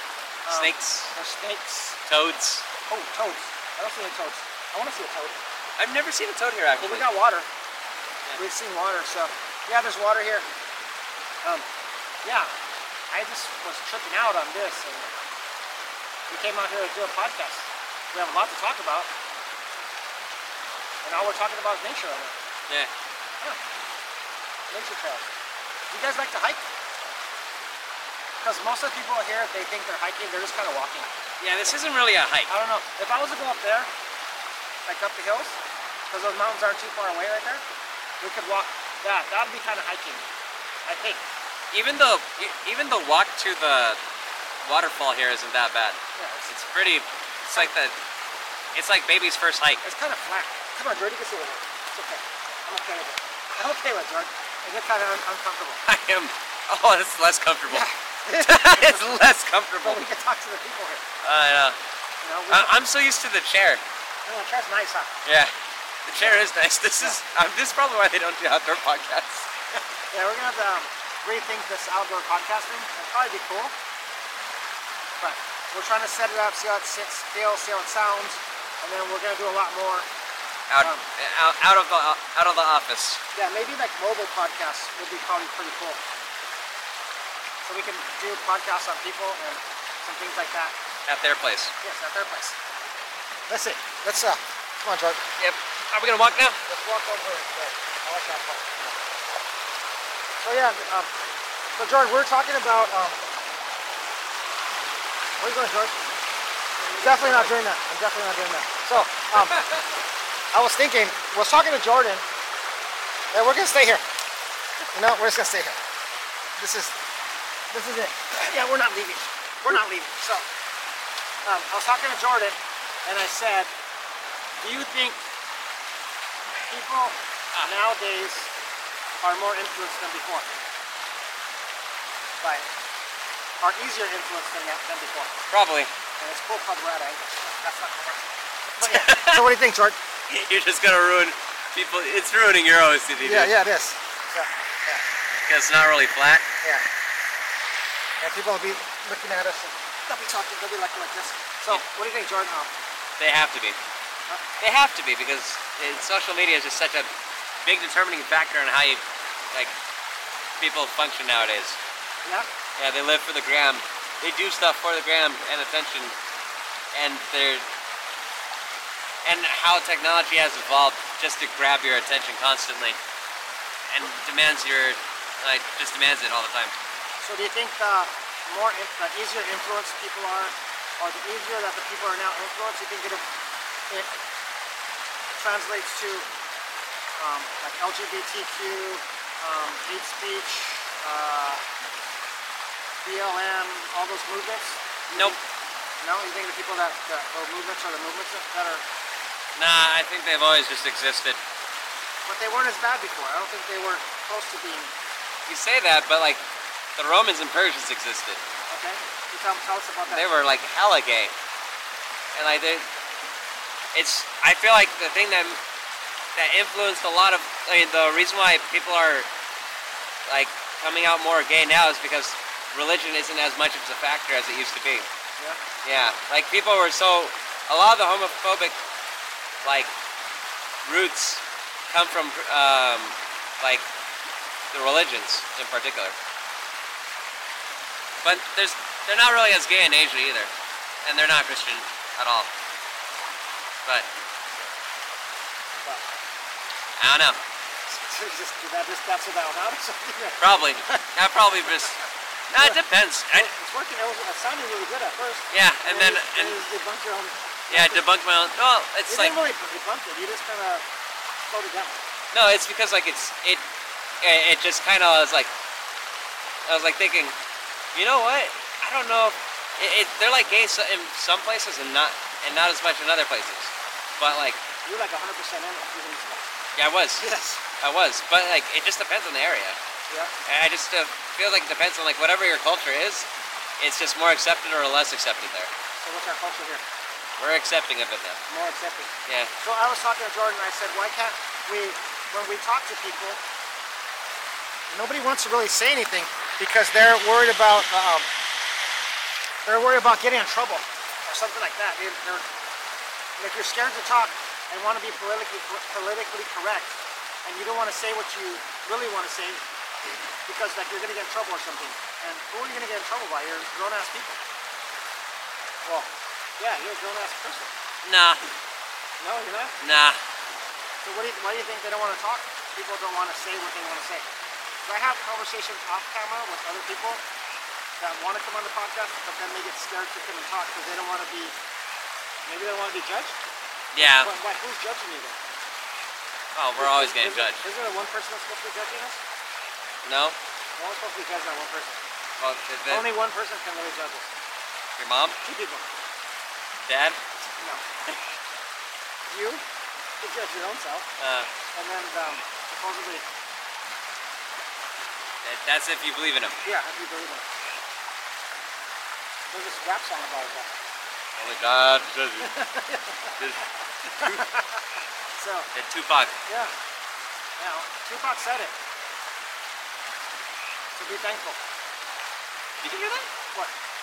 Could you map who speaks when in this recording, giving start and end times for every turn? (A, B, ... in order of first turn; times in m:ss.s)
0:00.5-0:02.0 A
0:00.5-0:01.1 B
0:02.1-0:02.6 B
0:02.9-0:05.4 A
0:05.8-0:07.1 B
0:06.8-0:07.5 A
0:08.4-0:10.5 A
0:12.2-0:12.5 A
0:13.1-0:15.1 A
0:16.3-0:19.1 A
0:21.0-0:22.4 A
0:24.7-0:25.3 A
0:25.9-0:26.6 A
0:28.4-0:31.1 A
0:31.4-0:32.5 B
0:32.5-0:33.9 A
0:34.9-0:35.6 A
0:36.1-0:37.6 A
0:38.2-0:40.2 A
0:40.9-0:41.2 A
0:41.7-0:44.0 B
0:44.6-0:47.9 B
0:46.2-0:46.5 A
0:48.8-0:49.8 B
0:49.8-0:55.8 A
0:55.9-0:57.9 B
0:57.7-0:59.3 A
0:58.4-1:00.0 B
0:59.8-1:01.0 A
1:01.2-1:01.8 B
1:02.2-1:02.8 A
1:02.5-1:03.8 B
1:04.2-1:05.1 A
1:05.2-1:05.5 B
1:06.1-1:09.5 B
1:10.1-1:13.7 A
1:15.2-1:20.1 A
1:20.7-1:23.2 B
1:23.4-1:26.0 A
1:27.6-1:30.7 A
1:31.1-1:31.7 B
1:31.8-1:32.6 A
1:33.5-1:35.2 A
1:35.4-1:36.6 B
1:36.6-1:39.0 A
1:40.4-1:41.1 A
1:41.8-1:43.2 A
1:45.4-1:46.0 A
1:46.9-1:47.5 B
1:47.0-1:49.8 A
1:50.5-1:52.2 A
1:53.3-1:54.0 A
1:54.9-1:55.8 A
1:56.6-1:56.9 A
1:57.7-2:00.5 A
2:01.4-2:03.7 A
2:04.6-2:05.2 A
2:06.7-2:08.5 A
2:09.2-2:10.5 A
2:12.4-2:12.7 A
2:13.6-2:15.3 A
2:15.5-2:15.9 B
2:16.2-2:20.0 A
2:18.8-2:19.4 B
2:20.3-2:23.5 B
2:23.2-2:25.0 A
2:25.5-2:26.4 B
2:28.2-2:32.7 A
2:33.2-2:33.8 B
2:34.6-2:37.1 B
2:37.6-2:39.0 B
2:40.6-2:41.8 B
2:42.8-2:46.2 B
2:46.9-2:47.6 B
2:49.2-2:53.0 B
2:53.9-2:56.7 B
2:57.2-3:03.2 A
3:05.4-3:06.3 A
3:07.2-3:11.6 A
3:13.0-3:15.4 A
3:16.0-3:18.8 A
3:19.6-3:21.4 B
3:22.2-3:24.9 A
3:25.5-3:26.4 B
3:27.0-3:28.4 B
3:28.7-3:30.3 A
3:30.1-3:31.3 B
3:32.4-3:32.8 B
3:33.9-3:35.6 B
3:36.4-3:39.3 B
3:40.3-3:45.1 B
3:45.8-3:48.8 B
3:49.6-3:49.9 B
3:50.8-3:53.8 B
3:54.7-3:56.1 B
3:58.2-4:00.5 B
4:01.0-4:02.5 B
4:07.0-4:07.4 B
4:07.9-4:11.1 A
4:10.4-4:12.0 B
4:12.5-4:13.5 B
4:12.6-4:18.0 A
4:15.5-4:16.6 B
4:17.7-4:19.4 B
4:19.1-4:20.8 A
4:21.5-4:22.0 A
4:22.3-4:23.6 B
4:24.2-4:25.5 B
4:26.7-4:27.4 B
4:28.0-4:34.6 B
4:34.8-4:36.5 A
4:36.8-4:39.8 B
4:37.2-4:37.6 A
4:40.5-4:43.3 B
4:43.8-4:45.7 B
4:46.0-4:46.8 A
4:47.4-4:48.4 B
4:48.5-4:53.4 A
4:54.9-4:58.3 A
4:59.6-5:02.4 A
5:03.4-5:07.0 A
5:07.5-5:09.6 A
5:10.5-5:14.4 A
5:15.8-5:17.7 A
5:18.0-5:18.5 B
5:19.2-5:19.8 A
5:19.8-5:20.2 B
5:21.0-5:24.3 A
5:24.9-5:27.2 A
5:28.0-5:31.6 A
5:32.5-5:33.4 A
5:33.9-5:34.3 B
5:34.0-5:35.4 A
5:36.6-5:37.6 B
5:36.8-5:39.2 A
5:40.0-5:40.4 B
5:40.8-5:42.0 A
5:42.4-5:43.1 B
5:42.9-5:44.3 A
5:45.0-5:45.4 B
5:45.4-5:45.9 A
5:46.9-5:47.2 B
5:49.3-5:49.6 A
5:50.2-5:51.1 A
5:51.2-5:51.5 B
5:51.7-5:53.2 A
5:55.4-5:56.6 B
5:56.6-5:57.4 A
5:59.5-6:00.8 A
6:01.4-6:02.6 B
6:02.4-6:03.4 A
6:03.4-6:04.4 B
6:04.2-6:04.8 A
6:05.4-6:05.7 A
6:05.7-6:06.3 B
6:06.5-6:06.7 A
6:07.6-6:08.7 A
6:11.0-6:11.6 A
6:12.8-6:13.3 B